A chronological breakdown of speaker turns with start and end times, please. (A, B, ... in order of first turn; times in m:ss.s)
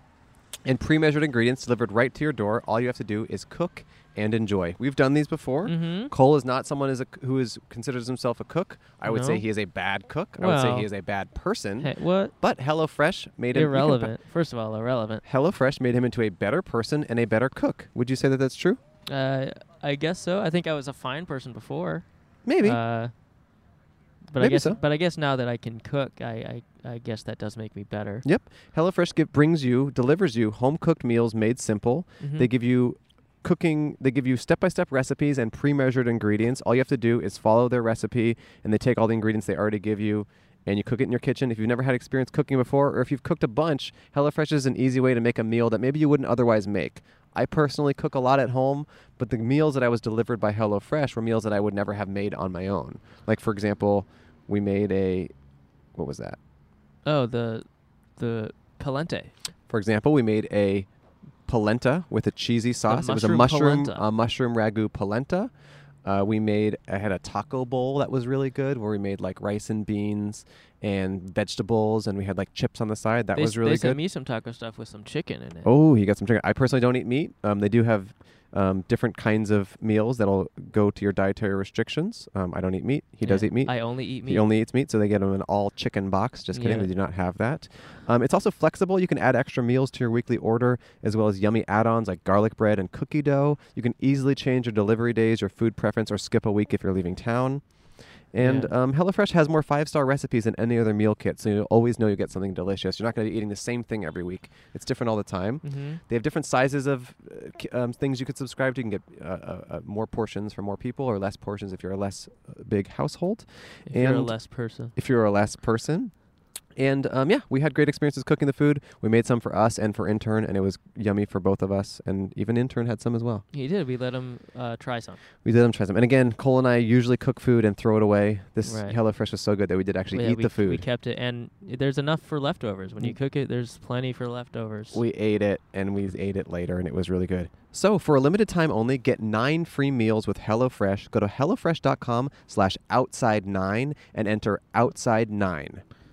0:00.6-0:14.2 A
0:05.6-0:06.1 B
0:09.0-0:09.4 B
0:10.4-0:10.9 B
0:11.8-0:12.3 B
0:13.5-0:15.2 B
0:15.2-0:18.8 A
0:19.1-0:23.1 B
0:22.4-0:22.8 A
0:24.2-0:28.2 B
0:24.4-0:24.8 A
0:28.2-0:55.3 A
0:32.2-0:32.5 B
0:56.0-0:56.4 A
0:57.0-0:59.3 B
0:59.7-1:00.9 A
1:01.5-1:05.5 A
1:02.9-1:04.0 B
1:06.0-1:14.0 A
1:13.4-1:15.7 B
1:15.6-1:37.8 A
1:23.2-1:24.5 B
1:26.5-1:26.9 B
1:38.3-1:56.2 A
1:38.4-1:38.7 B
1:45.6-1:46.0 B
1:53.9-1:54.9 B
1:56.8-2:03.4 A
2:03.5-2:05.2 B
2:05.4-2:10.9 A
2:08.6-2:09.0 B
2:10.1-2:15.0 B
2:14.9-2:25.8 A